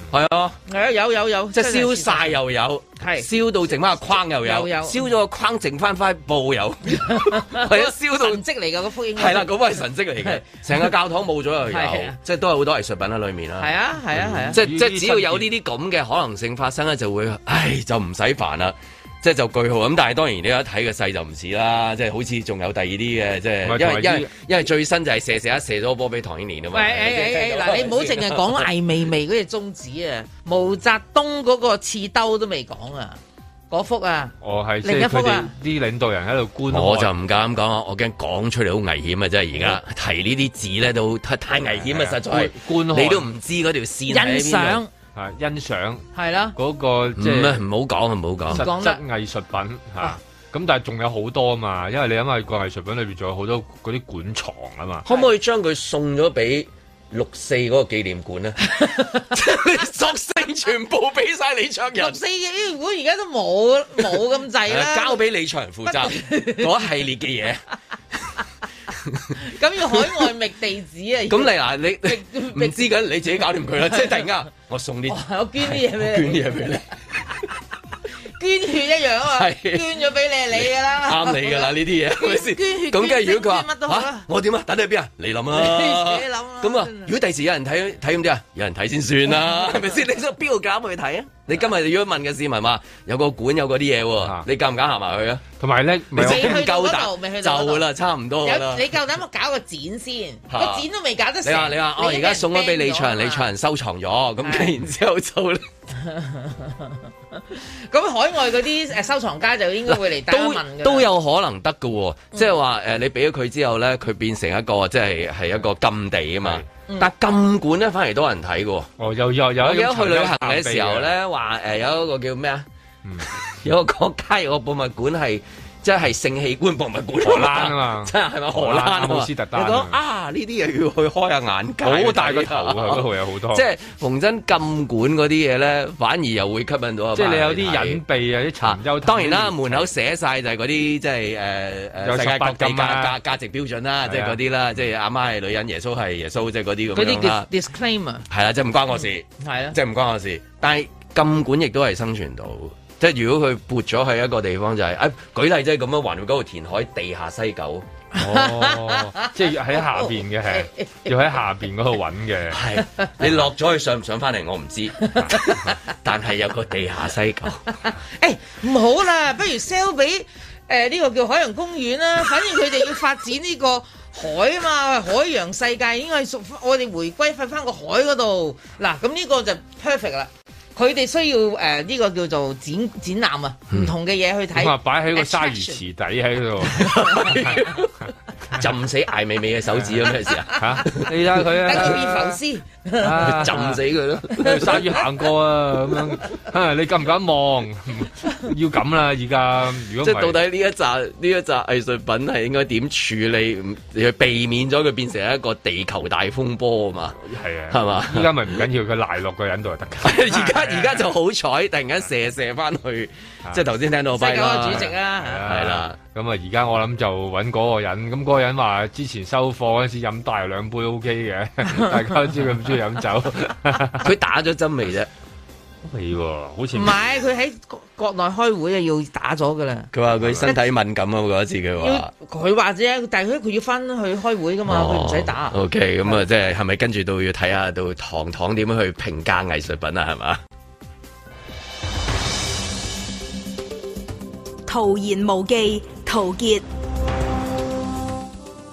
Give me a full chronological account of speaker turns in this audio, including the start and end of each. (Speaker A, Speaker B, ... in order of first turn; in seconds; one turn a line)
Speaker A: 0.1-0.6
Speaker B: 0.7-2.4
Speaker A: 1.5-8.4
Speaker B: 3.0-3.3
Speaker B: 4.4-5.0
Speaker B: 7.1-9.5
Speaker A: 9.1-13.7
Speaker B: 11.7-12.2
Speaker B: 13.6-14.6
Speaker C: 14.1-15.5
Speaker A: 14.5-28.7
Speaker C: 23.6-24.3
Speaker B: 26.7-33.2
Speaker B: 33.7-35.5
Speaker C: 34.4-37.1
Speaker A: 36.7-44.8
Speaker C: 41.6-43.3
Speaker B: 44.1-44.9
Speaker C: 45.1-47.6
Speaker B: 46.1-46.5
Speaker A: 47.2-48.6
Speaker C: 48.5-55.0
Speaker B: 48.5-49.0
Speaker A: 55.0-62.2
Speaker B: 58.8-59.2
Speaker B: 62.0-65.2
Speaker A: 64.7-67.6
Speaker B: 65.8-66.8
Speaker A: 69.0-69.3
Speaker B: 69.3-72.9
Speaker A: 71.3-77.5
Speaker B: 75.1-76.5
Speaker B: 78.4-84.2
Speaker A: 79.3-79.9
Speaker A: 80.6-95.4
Speaker B: 85.5-87.1
Speaker C: 94.2-94.5
Speaker C: 95.6-96.6
Speaker A: 96.1-98.8
Speaker B: 96.2-97.8
Speaker B: 98.4-103.5
Speaker A: 100.5-100.8
Speaker A: 101.4-105.7
Speaker B: 104.4-104.7
Speaker B: 106.0-111.1
Speaker A: 109.9-118.9
Speaker C: 119.0-121.1
Speaker A: 119.6-122.7
Speaker A: 123.2-138.0
Speaker C: 127.2-130.0
Speaker C: 131.8-133.6
Speaker C: 137.1-139.9
Speaker A: 138.6-147.5
Speaker C: 142.0-143.2
Speaker C: 144.0-144.4
Speaker B: 146.9-148.2
Speaker A: 148.3-157.8
Speaker B: 149.4-149.8
Speaker B: 158.1-161.1
Speaker C: 158.1-162.6
Speaker A: 162.5-167.6
Speaker B: 165.1-165.7
Speaker B: 167.8-185.8
Speaker C: 184.5-187.7
Speaker A: 186.7-187.9
Speaker A: 188.5-192.1
Speaker C: 189.7-192.3
Speaker B: 191.5-193.6
Speaker C: 193.0-200.4
Speaker A: 193.2-195.1
Speaker A: 200.0-208.3
Speaker C: 207.3-211.1
Speaker A: 210.0-214.9
Speaker B: 214.1-215.4
Speaker C: 214.6-224.1
Speaker A: 215.4-215.9
Speaker A: 224.0-225.1
Speaker C: 225.8-227.0
Speaker B: 226.7-229.9
Speaker A: 229.9-232.1
Speaker C: 230.2-230.5
Speaker B: 230.4-230.7
Speaker B: 231.8-235.6
Speaker A: 234.7-240.4
Speaker D: 244.7-246.6